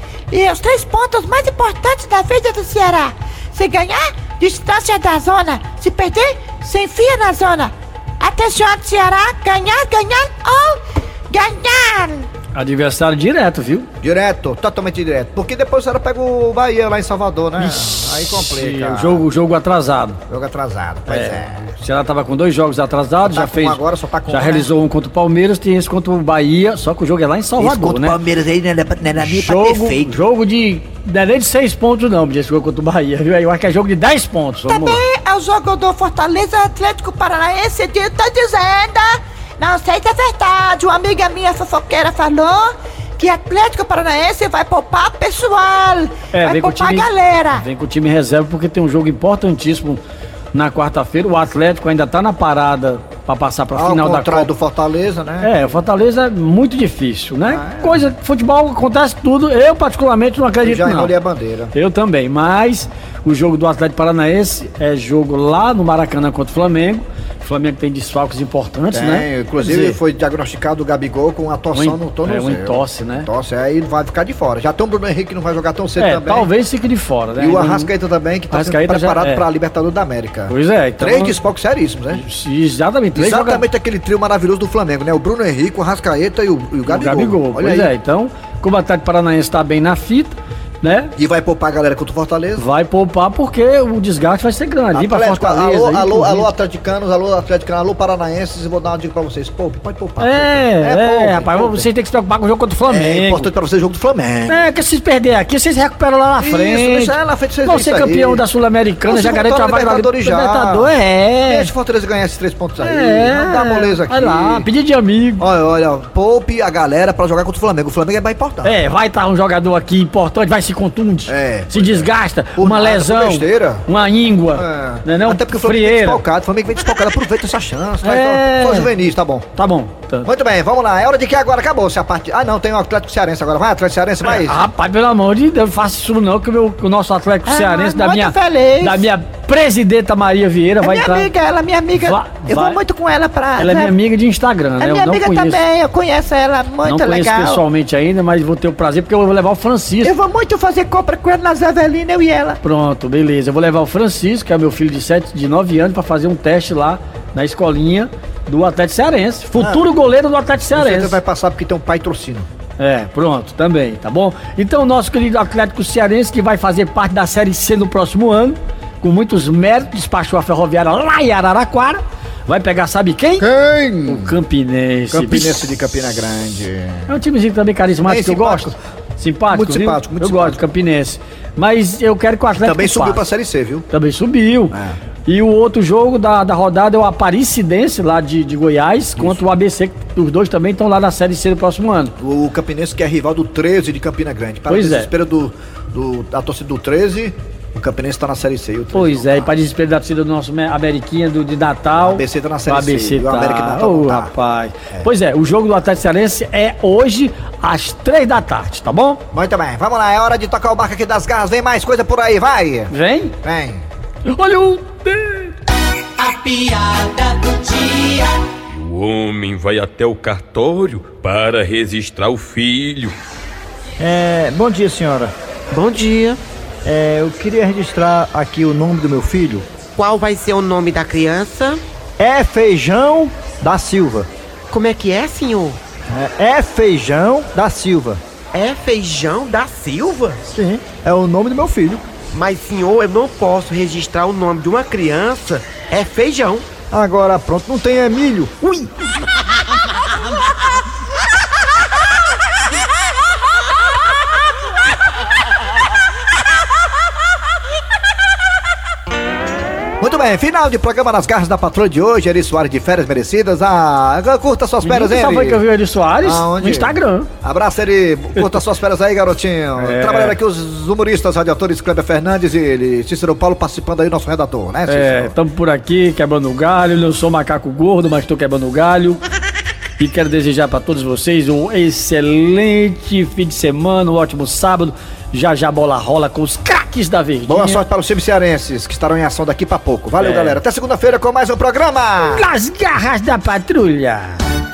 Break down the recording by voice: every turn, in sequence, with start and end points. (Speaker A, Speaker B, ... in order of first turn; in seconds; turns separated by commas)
Speaker A: 0.3-12.3, Speaker B: 12.6-13.9, Speaker C: 14.0-19.2, Speaker B: 17.6-20.2, Speaker C: 20.3-21.7, Speaker B: 21.1-28.2, Speaker C: 23.2-24.7, Speaker D: 27.9-30.1, Speaker B: 29.2-35.0, Speaker A: 34.7-47.7, Speaker B: 46.3-50.0, Speaker B: 50.5-54.5, Speaker C: 53.7-55.5, Speaker B: 55.4-61.1, Speaker C: 57.5-58.0, Speaker C: 60.6-61.7, Speaker B: 61.7-70.0, Speaker C: 68.9-76.5, Speaker B: 71.8-73.3, Speaker B: 76.0-77.9, Speaker C: 77.4-82.2, Speaker B: 78.5-79.4, Speaker B: 80.5-81.3, Speaker B: 82.1-83.6, Speaker C: 83.2-87.9, Speaker B: 86.9-91.1, Speaker C: 91.2-92.6, Speaker B: 92.6-96.5, Speaker C: 94.9-101.9, Speaker B: 100.2-103.5, Speaker C: 102.9-104.6, Speaker B: 104.5-111.7, Speaker C: 106.4-108.4, Speaker C: 109.1-110.9, Speaker C: 111.5-114.7, Speaker B: 112.8-115.4, Speaker C: 115.4-118.7, Speaker B: 118.6-126.2, Speaker C: 121.3-123.8, Speaker C: 124.5-129.5, Speaker B: 128.0-128.9, Speaker B: 129.6-130.3, Speaker C: 130.2-134.6, Speaker B: 134.2-141.3, Speaker A: 137.5-139.0, Speaker A: 140.8-143.9, Speaker B: 142.0-142.8, Speaker B: 143.6-145.6, Speaker A: 144.8-147.6, Speaker B: 146.8-150.1, Speaker A: 150.0-152.6, Speaker B: 152.6-161.2, Speaker C: 159.6-159.9, Speaker C: 160.7-162.5, Speaker B: 162.8-173.5, Speaker C: 173.4-174.3, Speaker B: 174.1-175.7, Speaker C: 175.1-177.1, Speaker B: 177.1-183.2, Speaker C: 178.0-178.8, Speaker C: 179.5-180.6, Speaker C: 182.6-183.9, Speaker B: 183.9-184.7, Speaker C: 184.7-185.0, Speaker B: 185.3-192.1, Speaker C: 192.2-199.5, Speaker B: 194.7-195.1, Speaker B: 198.9-209.2, Speaker C: 202.0-204.3, Speaker C: 209.3-212.9, Speaker B: 212.9-213.3, Speaker C: 213.4-213.8, Speaker B: 214.2-215.5, Speaker E: 216.2-218.4, Speaker F: 218.7-223.1, Speaker G: 224.0-225.3, Speaker H: 225.7-226.4, Speaker G: 226.8-229.7, Speaker H: 230.0-231.8, Speaker G: 232.2-234.3, Speaker H: 234.7-235.8, Speaker G: 236.1-238.2, Speaker H: 238.5-240.4, Speaker G: 240.5-242.0, Speaker H: 242.3-246.7, Speaker G: 246.9-248.9, Speaker C: 260.0-265.6, Speaker B: 264.8-267.3, Speaker C: 266.2-275.3, Speaker B: 269.8-270.4, Speaker B: 274.9-279.2, Speaker B: 280.0-287.8, Speaker C: 287.5-292.5, Speaker B: 290.2-290.6, Speaker B: 292.2-294.4